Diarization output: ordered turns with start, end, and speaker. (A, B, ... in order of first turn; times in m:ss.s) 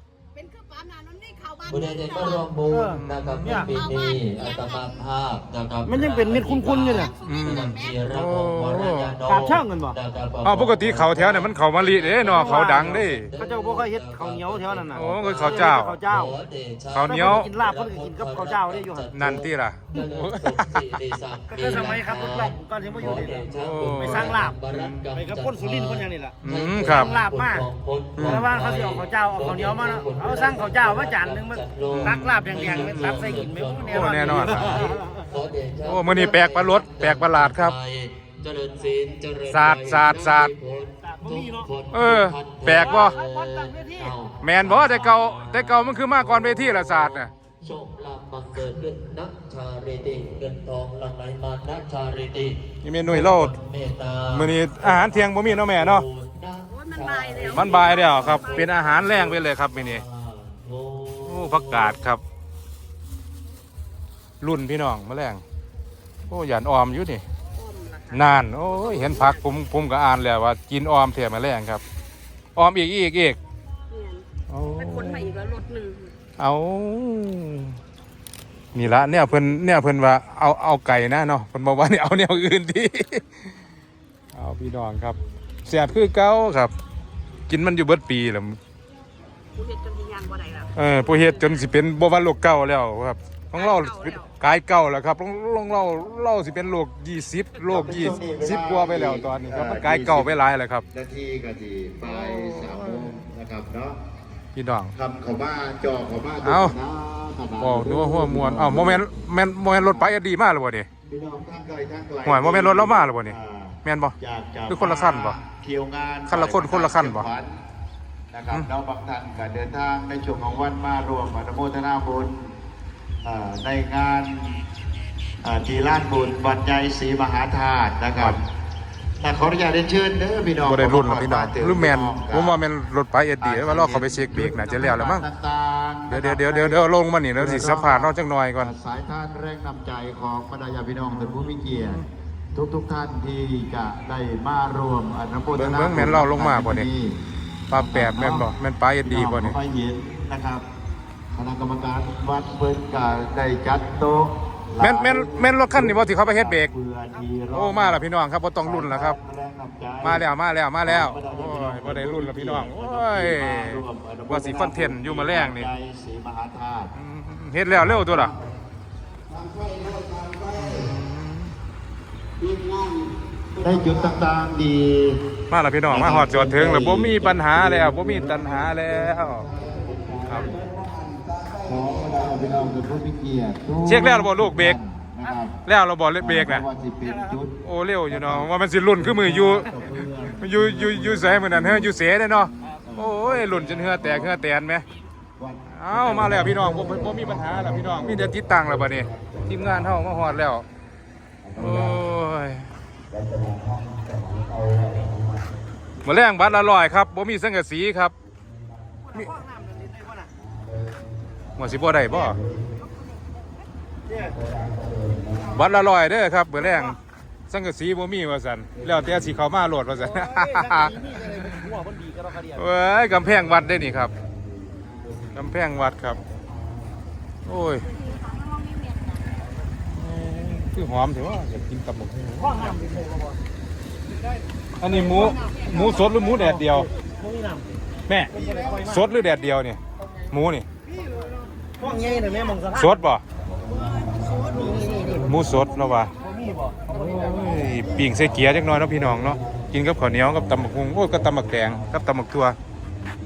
0:00.3-0:02.5 A
0:01.6-1:02.0 B
0:02.7-0:03.7 C
0:03.0-0:03.8 D
0:03.7-0:04.7 A
0:05.8-0:07.1 C
0:06.9-0:08.0 A
0:07.2-0:09.1 D
0:09.2-0:10.0 C
0:10.4-0:13.3 D
0:12.5-0:16.3 C
0:14.9-0:16.0 D
0:16.9-0:17.5 D
0:17.1-0:19.1 C
0:19.1-0:21.1 D
0:21.5-0:23.4 C
0:23.0-0:25.0 D
0:24.0-0:24.6 C
0:25.1-0:26.3 C
0:26.4-0:27.1 D
0:26.9-0:27.7 C
0:28.2-0:28.4 D
0:28.3-0:35.2 C
0:31.9-0:34.9 D
0:35.8-0:37.8 D
0:39.5-0:40.5 D
0:41.2-0:41.7 C
0:41.9-0:43.2 D
0:42.8-0:44.1 C
0:44.4-0:47.3 D
0:52.8-0:53.5 D
0:54.3-0:56.0 D
0:56.7-0:59.0 A
0:57.4-1:00.0 D
1:01.2-1:02.2 D
1:04.4-1:05.4 D
1:06.3-1:07.2 D
1:07.5-1:09.5 A
1:08.1-1:11.8 D
1:12.6-1:13.4 D
1:13.9-1:16.1 A
1:14.5-1:15.4 D
1:16.4-1:17.8 D
1:18.7-1:23.5 D
1:24.3-1:26.7 D
1:27.5-1:28.6 D
1:29.5-1:31.6 A
1:30.7-1:40.8 D
1:33.5-1:34.3 A
1:37.6-1:40.3 E
1:40.9-1:44.0 E
1:42.0-1:43.2 D
1:44.5-1:44.9 D
1:44.9-1:49.1 E
1:46.4-1:46.7 D
1:47.6-1:50.9 D
1:49.7-1:50.1 E
1:51.0-1:57.6 E
1:52.2-1:54.2 D
1:54.7-1:55.4 D
1:56.3-1:57.3 D
1:58.3-2:02.5 E
2:03.2-2:04.6 E
2:05.4-2:08.4 E
2:08.1-2:08.4 D
2:09.2-2:12.6 E
2:10.6-2:15.2 D
2:13.4-2:16.8 E
2:16.1-2:18.7 D
2:17.3-2:27.2 E
2:25.5-2:26.9 D
2:27.7-2:29.6 D
2:27.7-2:28.5 E
2:29.0-2:30.6 E
2:31.3-2:38.0 E
2:34.8-2:36.7 D
2:37.5-2:39.2 D
2:38.6-2:40.2 E
2:40.0-2:45.7 D
2:40.8-2:46.9 E
2:46.9-2:48.3 D
2:47.7-2:48.6 E
2:49.5-2:50.7 E
2:50.6-2:51.5 D
2:53.6-2:55.2 E
2:55.5-2:59.4 D
2:55.9-3:05.6 E
3:00.3-3:00.5 D
3:03.8-3:04.8 D
3:05.6-3:06.6 D
3:06.2-3:07.5 E
3:07.6-3:14.8 D
3:08.0-3:14.4 E
3:15.4-3:20.2 E
3:15.7-3:20.6 D
3:21.4-3:22.0 E
3:21.6-3:22.7 D
3:23.1-3:25.4 E
3:26.0-3:28.1 D
3:29.1-3:29.4 D
3:29.2-3:30.3 C
3:31.6-3:32.4 D
3:32.3-3:32.6 E
3:34.1-3:34.4 C
3:34.2-3:35.6 E
3:35.5-3:37.0 D
3:37.5-3:41.8 D
3:40.1-3:42.6 C
3:42.5-3:44.1 D
3:45.3-3:46.2 D
3:47.4-3:47.9 D
3:48.0-3:49.0 A
3:49.8-3:52.7 D
3:52.4-3:53.4 C
3:54.8-3:56.9 D
3:55.3-3:55.8 C
3:56.4-3:57.7 C
3:58.1-3:59.8 D
3:58.3-3:59.0 C
4:00.3-4:00.6 D
4:01.8-4:02.9 C
4:02.7-4:03.2 D
4:04.3-4:05.3 E
4:04.5-4:05.2 C
4:05.2-4:06.1 D
4:06.2-4:07.3 C
4:06.8-4:12.6 D